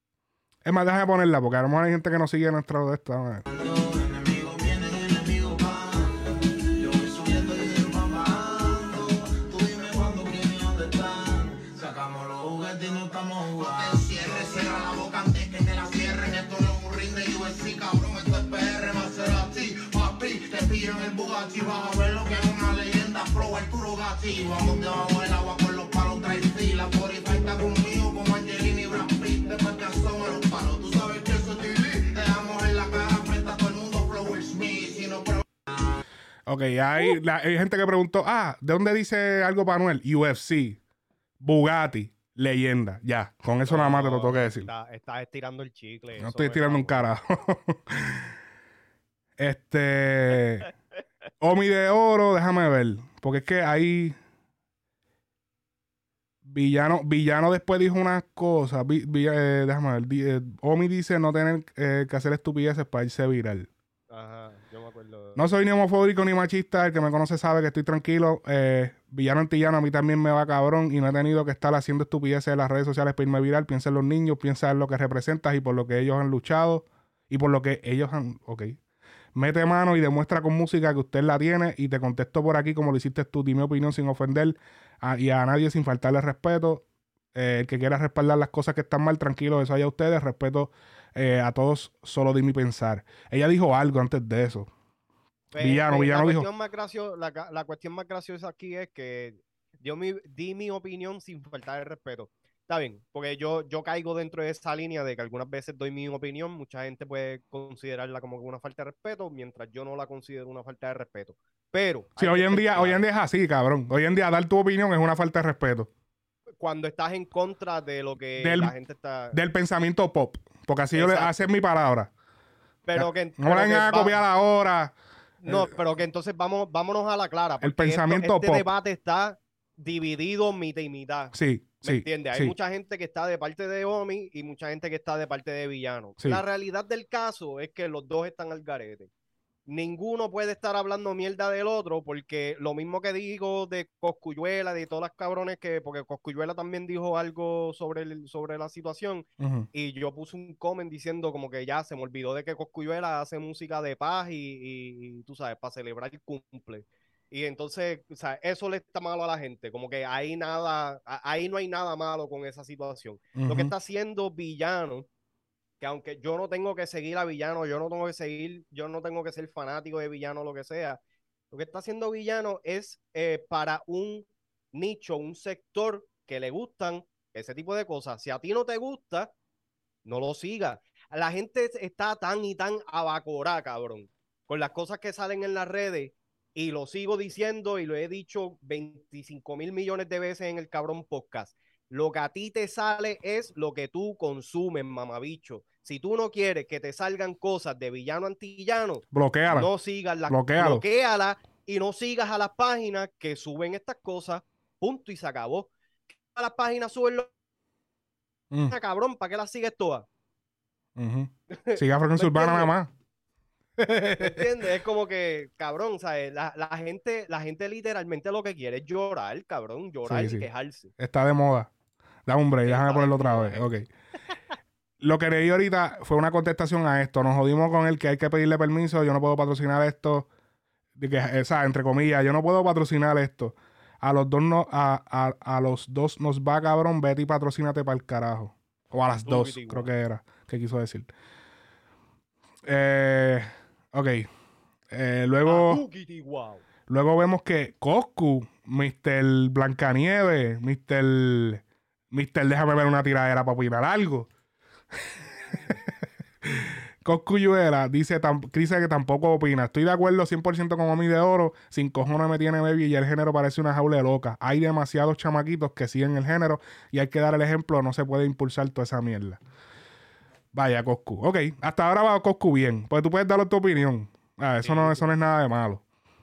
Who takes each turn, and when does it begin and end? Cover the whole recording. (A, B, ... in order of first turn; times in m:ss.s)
0:00.6-0:03.4 A
0:03.5-0:36.0 B
0:36.5-0:40.8 A
0:41.4-0:44.7 A
0:43.6-0:47.1 C
0:46.2-0:48.3 A
0:49.4-0:50.7 A
0:51.4-0:54.2 A
0:56.4-1:03.7 A
1:04.1-1:05.4 C
1:05.4-1:18.8 A
1:19.3-1:26.8 A
1:27.3-1:34.7 A
1:35.5-1:53.0 C
1:35.6-1:36.5 A
1:52.2-1:55.9 A
1:56.6-1:59.4 C
1:58.4-1:58.7 A
1:59.3-2:02.1 A
2:00.9-2:01.5 C
2:02.9-2:04.2 C
2:02.9-2:04.9 A
2:05.4-2:19.1 C
2:05.4-2:05.7 A
2:07.6-2:08.6 A
2:11.3-2:12.5 A
2:19.7-2:45.1 C
2:29.4-2:29.7 A
2:43.4-2:43.7 A
2:45.8-2:51.0 C
2:51.5-2:59.3 C
3:00.0-3:25.7 C
3:19.1-3:19.7 A
3:20.3-3:20.8 A
3:26.3-3:27.3 C
3:28.7-3:30.0 C
3:31.0-3:32.9 A
3:31.5-3:32.7 C
3:33.8-3:34.5 A
3:34.2-3:40.9 C
3:40.0-3:40.5 A
3:41.0-3:41.7 A
3:42.2-3:43.9 A
3:42.6-3:43.6 C
3:45.0-3:50.3 A
3:51.0-4:01.1 A
3:59.2-3:59.9 C
4:02.6-4:04.3 A
4:04.9-4:05.8 A
4:05.4-4:06.6 C
4:06.9-4:14.3 A
4:15.5-4:15.8 A
4:16.4-4:29.4 A
4:30.5-4:35.8 A
4:34.6-4:35.1 C